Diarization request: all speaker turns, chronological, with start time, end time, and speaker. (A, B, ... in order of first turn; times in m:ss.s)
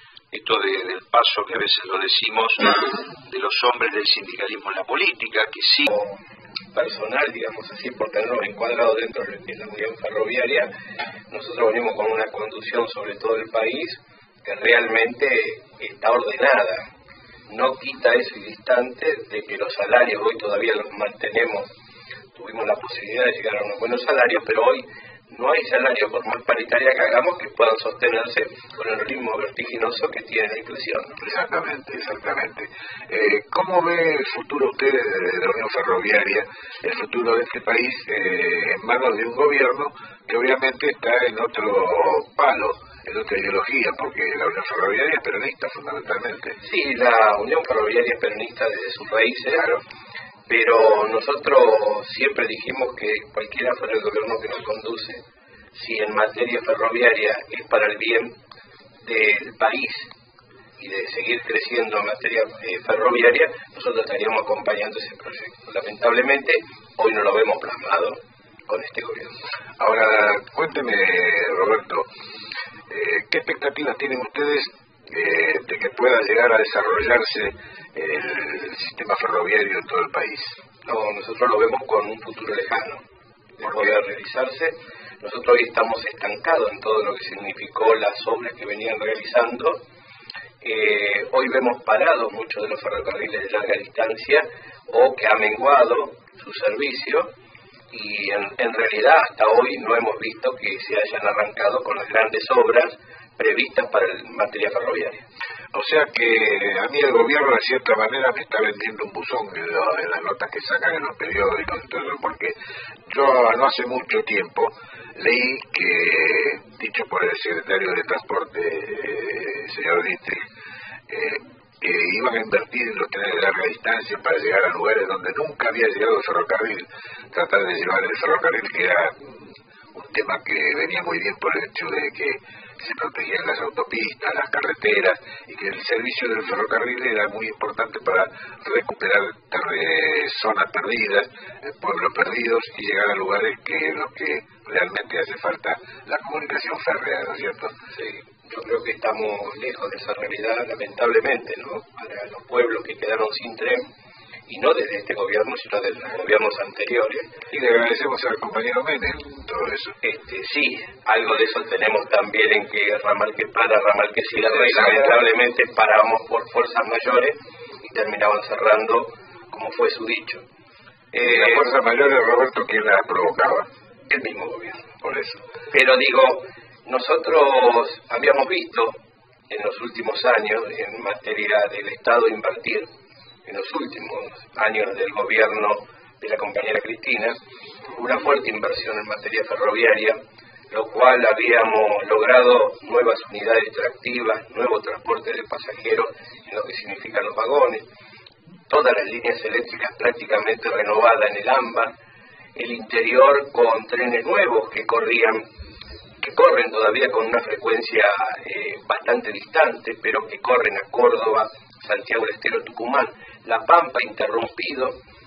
0:00.3-0:05.9 A
0:05.9-0:06.2 B
0:06.7-0:10.7 B
0:11.3-0:16.8 B
0:17.5-0:21.7 B
0:22.3-0:31.2 B
0:31.2-0:46.6 C
0:46.6-0:49.7 B
0:49.5-0:49.8 C
0:50.5-0:58.4 B
0:59.0-1:00.1 B
1:00.8-1:09.4 B
1:09.8-1:12.1 C
1:12.9-1:20.6 C
1:20.8-1:23.0 B
1:23.6-1:29.8 B
1:23.6-1:23.9 C
1:30.6-1:37.3 B
1:37.9-1:45.2 B
1:45.7-1:52.6 C
1:53.1-2:00.4 C
2:01.1-2:09.4 C
2:09.9-2:27.8 C
2:28.0-2:33.9 B
2:34.5-2:37.4 B
2:37.5-2:40.0 C
2:40.0-2:50.4 B
2:44.3-2:45.2 C
2:51.1-2:51.7 B
2:51.2-2:53.7 C
2:54.1-2:54.9 B
2:55.0-2:55.4 C
2:55.7-2:59.0 B
2:59.5-3:02.9 B
3:03.4-3:07.4 B
3:07.9-3:10.2 B
3:10.7-3:17.8 B
3:18.7-3:21.9 B
3:22.5-3:25.4 B
3:26.2-3:35.0 B